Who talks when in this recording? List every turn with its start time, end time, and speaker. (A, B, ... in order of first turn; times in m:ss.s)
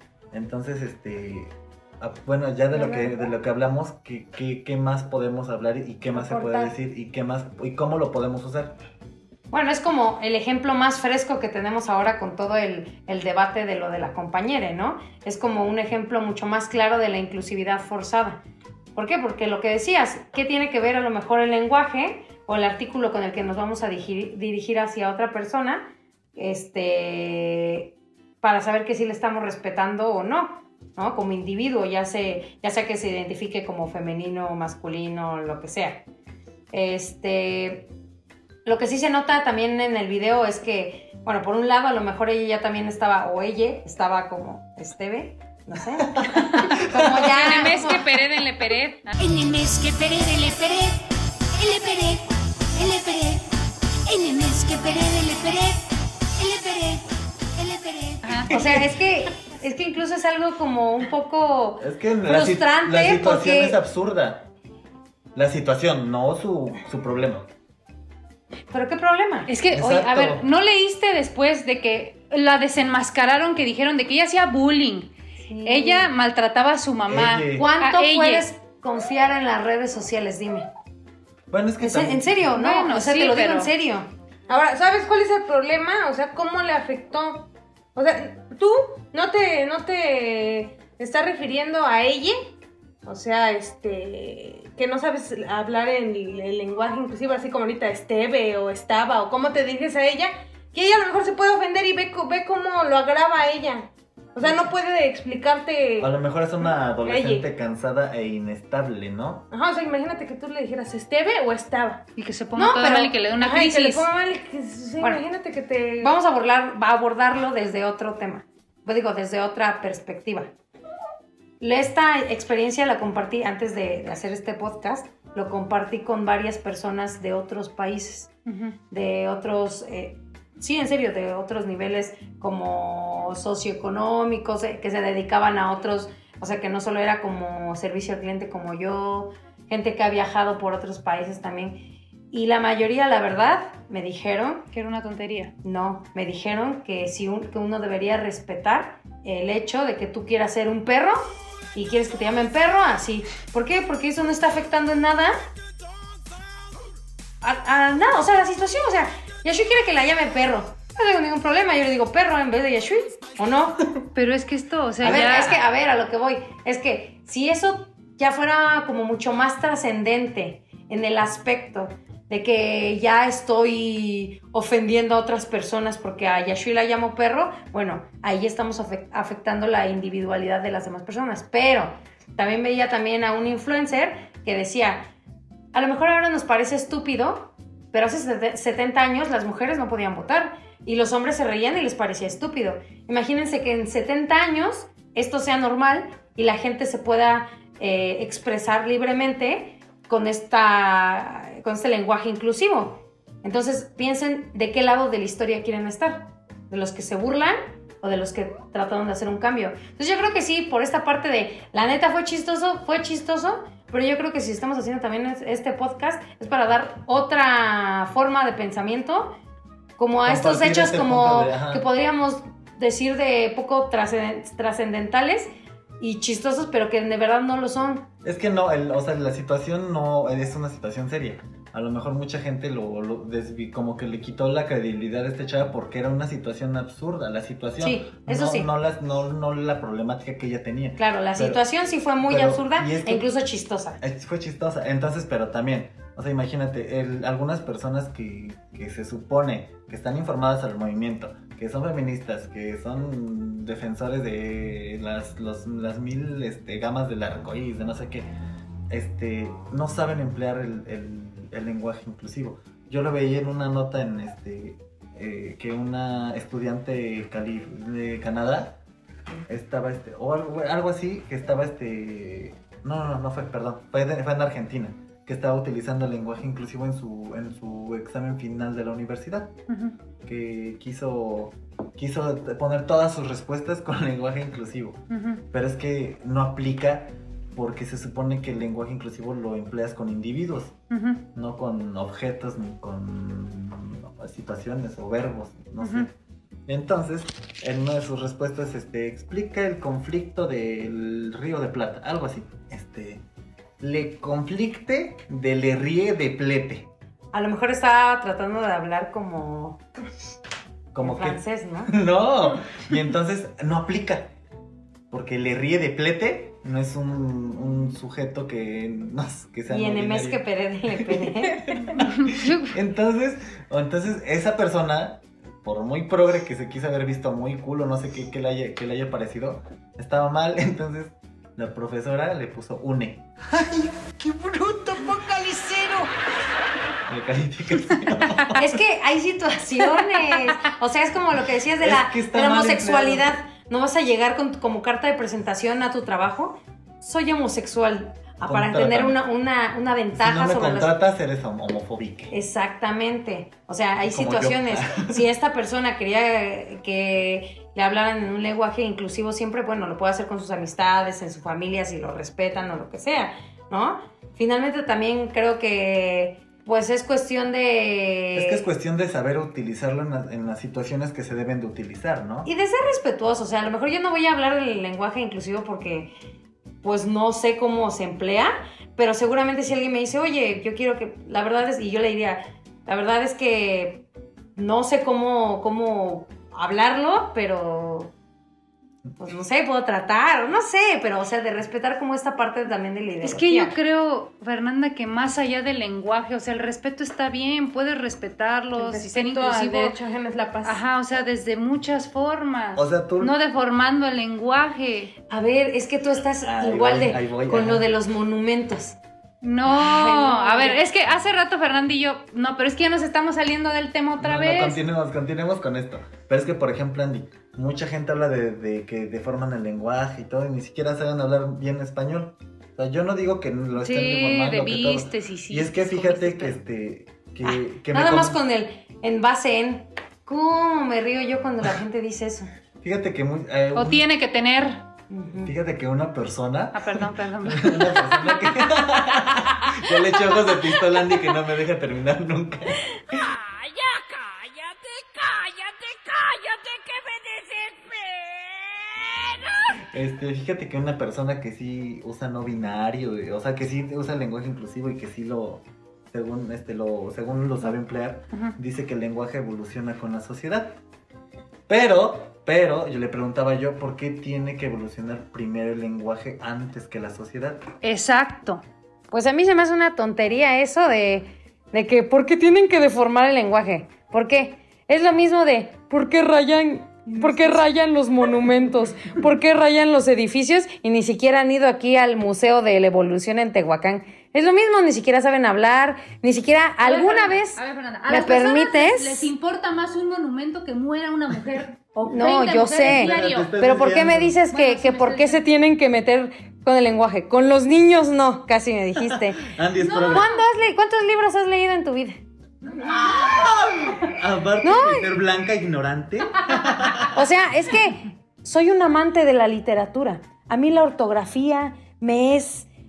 0:00.3-0:08.8 A
0:02.8-0:03.1 B
0:06.1-0:06.7 B
0:09.5-0:18.4 B
0:19.0-0:36.0 B
0:36.7-0:37.9 B
0:38.6-0:48.0 B
0:46.5-0:49.2 C
0:49.2-0:50.7 D
0:51.6-0:52.0 C
0:54.1-0:55.3 D
0:55.0-0:55.5 C
0:57.7-0:58.1 D
0:58.2-0:58.5 C
0:58.5-1:03.8 B
0:58.5-0:58.9 A
1:01.8-1:04.5 A
1:05.4-1:07.5 A
1:08.7-1:09.5 B
1:09.5-1:15.1 C
1:09.7-1:10.4 A
1:15.4-1:16.1 B
1:15.6-1:18.5 C
1:17.1-1:17.7 A
1:17.6-1:20.7 B
1:21.5-1:22.5 A
1:21.8-1:24.1 B
1:22.6-1:23.7 C
1:24.5-1:32.4 E
1:33.0-1:47.5 E
1:46.0-1:49.5 A
1:49.5-1:52.0 E
1:52.2-1:54.1 C
1:52.6-1:53.2 B
1:53.3-1:56.1 E
1:56.0-2:00.5 B
2:01.6-2:08.3 B
2:08.5-2:08.8 C
2:08.9-2:24.7 B
2:24.7-2:25.5 C
2:25.6-2:31.2 B
2:31.8-2:35.4 B
2:37.4-2:43.9 B
2:44.2-2:45.6 C
2:45.0-2:45.5 A
2:45.0-3:05.1 B
3:05.7-3:39.4 B
3:40.0-3:48.1 B
3:40.2-3:41.8 A
3:48.2-4:01.6 A
3:57.8-3:58.7 B
4:01.0-4:04.0 B
4:02.2-4:03.3 A
4:04.0-4:18.3 A
4:18.9-4:28.8 A
4:29.5-4:39.5 A
4:39.7-4:39.9 C
4:40.2-4:50.8 A
4:45.1-4:45.4 C
4:50.9-4:51.2 C
4:51.4-4:56.1 A
4:55.8-4:56.1 C
4:56.7-5:03.2 A
5:03.8-5:06.9 A
5:07.3-5:09.8 B
5:10.9-5:14.3 A
5:11.0-5:11.9 B
5:15.1-5:20.4 A
5:19.7-5:21.7 B
5:20.9-5:33.3 A
5:22.0-5:22.8 C
5:34.2-5:36.0 D
5:37.1-5:38.8 A
5:38.6-5:50.9 B
5:41.8-5:43.3 A
5:48.4-5:49.2 A
5:50.1-5:52.3 A
5:52.3-6:08.6 B
5:54.0-5:55.2 A
6:08.3-6:12.5 A
6:12.4-6:16.1 B
6:16.8-6:28.1 B
6:29.2-6:33.7 B
6:33.2-6:40.0 C
6:38.8-6:40.8 E
6:40.6-6:45.1 C
6:42.8-6:43.3 A
6:45.3-6:49.0 B
6:46.4-6:47.9 A
6:49.4-6:54.8 C
6:49.6-6:50.8 B
6:54.2-7:08.4 A
7:03.8-7:06.6 C
7:07.4-7:12.5 B
7:12.8-7:14.1 A
7:13.8-7:14.8 C
7:15.1-7:15.5 B
7:15.4-7:23.2 A
7:16.7-7:21.0 C
7:23.6-7:23.9 C
7:27.5-7:27.8 D
7:29.9-7:40.8 A
7:41.7-7:47.6 A
7:47.8-7:48.6 C
7:49.1-8:09.3 B
7:57.1-7:57.6 C
8:06.8-8:13.5 C
8:12.0-8:19.5 B
8:12.8-8:14.4 A
8:14.5-8:15.4 C
8:19.0-8:20.3 A
8:19.8-8:20.4 C
8:20.0-8:22.2 B
8:22.8-8:27.1 A
8:24.6-8:25.2 B
8:26.5-8:27.1 C
8:27.1-8:32.7 B